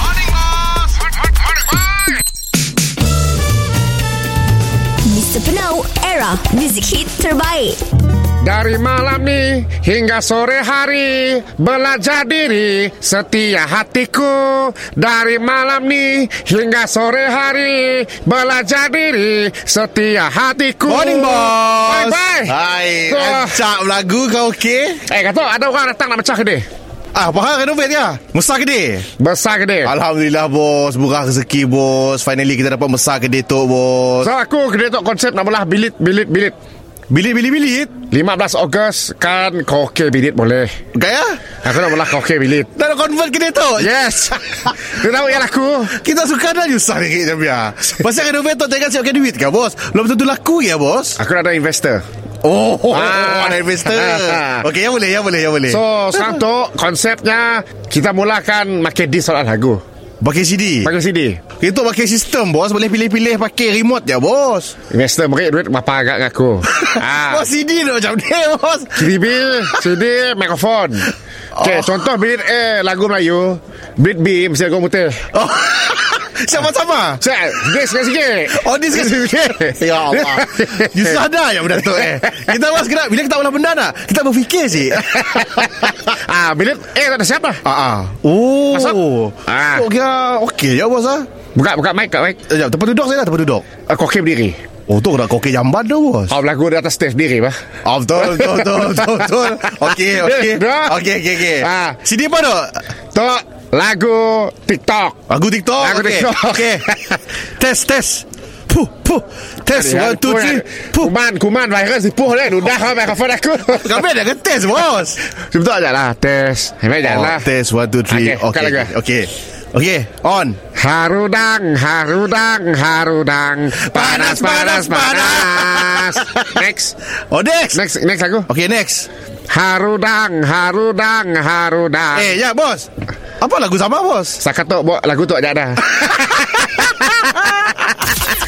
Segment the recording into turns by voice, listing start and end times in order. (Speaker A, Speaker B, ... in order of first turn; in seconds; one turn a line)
Speaker A: 5.0-7.8
Speaker B: 8.4-22.5
Speaker C: 20.9-25.0
Speaker B: 23.1-23.6
Speaker B: 25.1-26.6
Speaker C: 27.1-29.1
Speaker B: 29.2-29.9
Speaker C: 29.8-34.3
Speaker B: 34.2-36.5
Speaker C: 37.1-38.0
Speaker B: 38.0-40.7
Speaker C: 40.9-41.6
Speaker B: 41.6-42.7
Speaker C: 42.8-43.9
Speaker B: 43.8-46.0
Speaker C: 45.9-51.2
Speaker B: 51.2-52.0
Speaker C: 52.4-56.4
Speaker B: 52.9-54.6
Speaker B: 55.7-59.8
Speaker C: 60.2-60.9
Speaker B: 60.8-61.5
Speaker C: 61.5-64.8
Speaker B: 64.9-67.4
Speaker C: 66.7-69.2
Speaker B: 69.0-75.2
Speaker C: 71.5-72.1
Speaker C: 75.3-77.2
Speaker B: 77.2-81.2
Speaker C: 78.5-86.0
Speaker B: 85.2-87.6
Speaker C: 87.6-91.3
Speaker B: 88.7-89.8
Speaker B: 91.5-92.4
Speaker C: 92.5-93.8
Speaker B: 93.8-94.6
Speaker C: 94.9-96.3
Speaker B: 96.3-97.6
Speaker C: 97.8-102.8
Speaker B: 98.3-101.0
Speaker B: 101.5-102.0
Speaker B: 103.1-105.2
Speaker C: 105.3-111.1
Speaker B: 105.8-107.2
Speaker B: 109.7-114.0
Speaker C: 113.7-115.2
Speaker B: 115.5-117.5
Speaker C: 117.0-120.6
Speaker B: 118.1-118.9
Speaker B: 120.7-126.9
Speaker C: 123.7-126.6
Speaker C: 127.3-127.8
Speaker B: 127.7-128.5
Speaker C: 128.5-129.1
Speaker B: 129.5-132.3
Speaker C: 132.1-132.9
Speaker C: 133.4-134.4
Speaker B: 134.4-136.3
Speaker C: 136.0-137.9